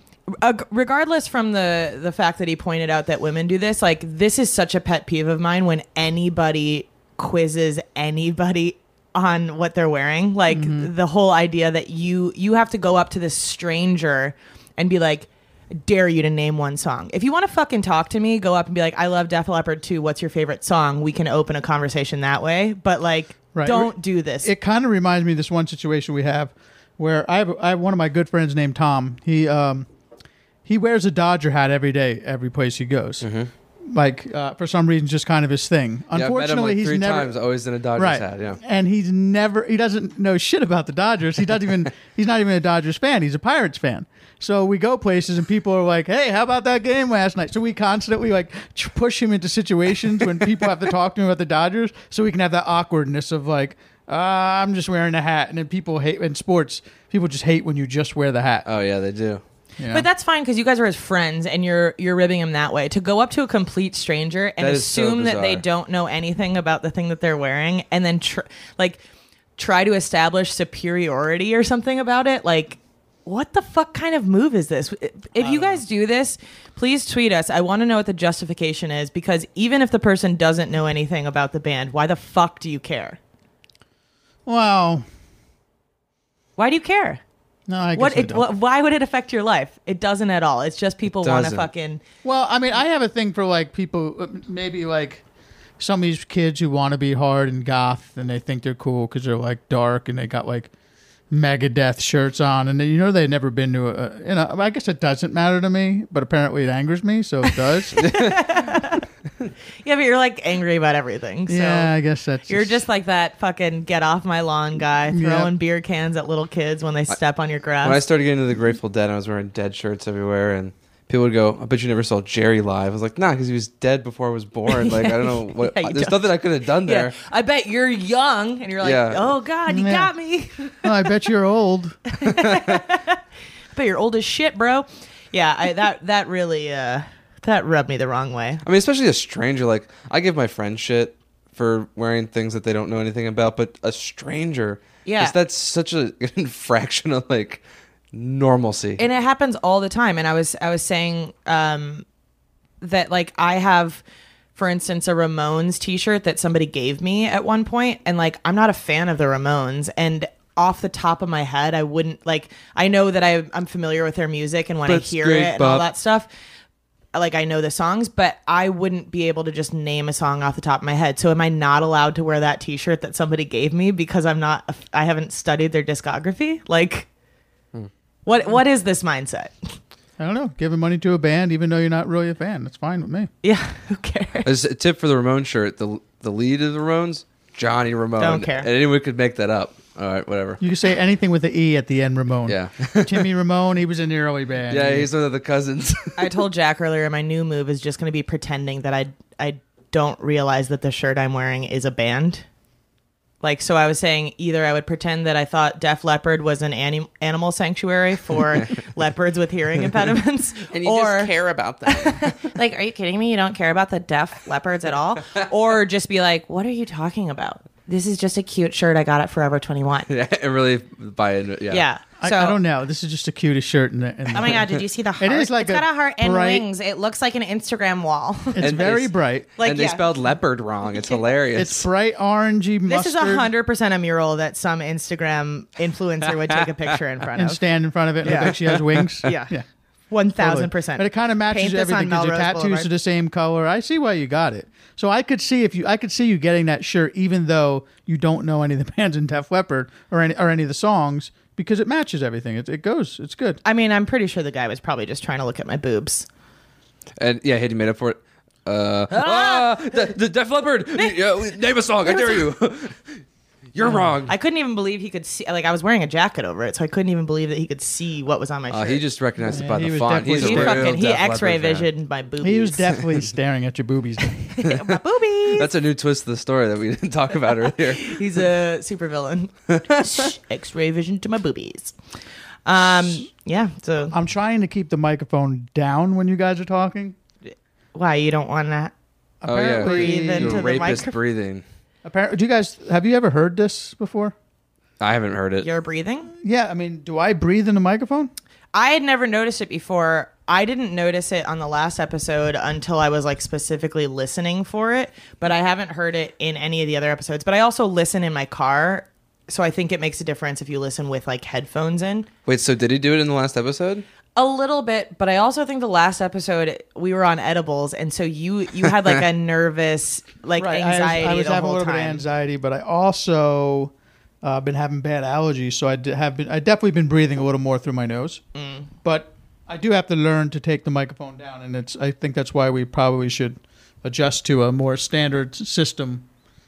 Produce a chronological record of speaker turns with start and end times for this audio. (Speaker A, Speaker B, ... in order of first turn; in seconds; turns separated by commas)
Speaker A: 0.3-24.5, Speaker B: 10.5-10.9, Speaker B: 23.5-29.9, Speaker B: 30.6-33.2, Speaker C: 33.2-33.5, Speaker B: 33.9-37.3, Speaker C: 36.1-38.6, Speaker B: 38.0-58.7, Speaker C: 58.6-59.4, Speaker B: 59.8-60.0, Speaker A: 59.9-69.0, Speaker C: 64.6-65.6, Speaker A: 69.6-83.2, Speaker B: 84.5-85.0, Speaker A: 86.6-87.2, Speaker B: 87.7-88.5, Speaker A: 88.0-92.0, Speaker C: 91.1-91.7, Speaker B: 92.2-95.2, Speaker B: 95.8-100.7, Speaker B: 101.3-108.0, Speaker A: 107.5-109.0, Speaker C: 108.0-108.3, Speaker A: 109.8-111.9, Speaker B: 111.5-112.8, Speaker A: 112.5-118.0, Speaker B: 115.1-115.5, Speaker C: 117.8-127.1, Speaker A: 124.7-130.9, Speaker C: 128.8-129.3, Speaker B: 129.7-130.1, Speaker B: 130.8-132.0, Speaker A: 132.1-133.2, Speaker C: 132.3-132.8, Speaker A: 133.7-138.6, Speaker C: 138.6-147.6, Speaker A: 145.0-145.3, Speaker C: 148.1-149.0, Speaker A: 149.0-152.0, Speaker A: 152.8-154.0, Speaker A: 154.5-166.3, Speaker C: 164.9-165.8, Speaker A: 167.1-177.1, Speaker A: 178.2-179.5, Speaker B: 180.2-183.3, Speaker A: 183.4-184.5, Speaker C: 184.4-190.6, Speaker A: 188.2-188.7, Speaker B: 190.6-195.1, Speaker C: 192.5-193.3, Speaker C: 194.7-196.3, Speaker A: 196.2-202.4, Speaker A: 203.4-220.1, Speaker C: 210.7-212.4, Speaker C: 220.1-221.8, Speaker A: 221.7-222.6, Speaker B: 222.2-226.7, Speaker A: 224.3-228.7, Speaker B: 228.5-229.5, Speaker C: 228.6-231.8, Speaker A: 229.6-230.1, Speaker A: 231.0-231.2, Speaker B: 231.5-233.5, Speaker A: 232.9-237.6, Speaker B: 237.3-239.6, Speaker A: 238.2-238.6, Speaker C: 238.2-239.1, Speaker A: 239.2-239.5, Speaker A: 240.1-242.9, Speaker B: 240.3-253.6, Speaker A: 253.6-256.2, Speaker C: 257.2-263.2, Speaker A: 259.1-259.7, Speaker A: 262.0-262.4, Speaker C: 263.7-264.3, Speaker A: 264.2-269.0, Speaker C: 268.7-271.9, Speaker B: 269.5-271.0, Speaker A: 270.3-272.9, Speaker B: 272.4-274.5, Speaker A: 274.5-275.7, Speaker C: 274.7-275.0, Speaker C: 275.5-278.2, Speaker A: 278.0-281.9, Speaker A: 282.6-284.1, Speaker B: 284.1-287.1, Speaker A: 287.5-288.9, Speaker B: 289.4-290.6, Speaker C: 289.4-291.6, Speaker A: 289.8-291.1, Speaker B: 292.0-294.3, Speaker C: 295.0-295.7, Speaker A: 295.6-296.3, Speaker B: 296.4-298.3, Speaker A: 298.7-312.3, Speaker C: 312.4-314.0, Speaker A: 314.4-322.2, Speaker B: 320.6-323.9, Speaker B: 324.4-328.4, Speaker A: 328.5-328.9, Speaker B: 329.0-336.2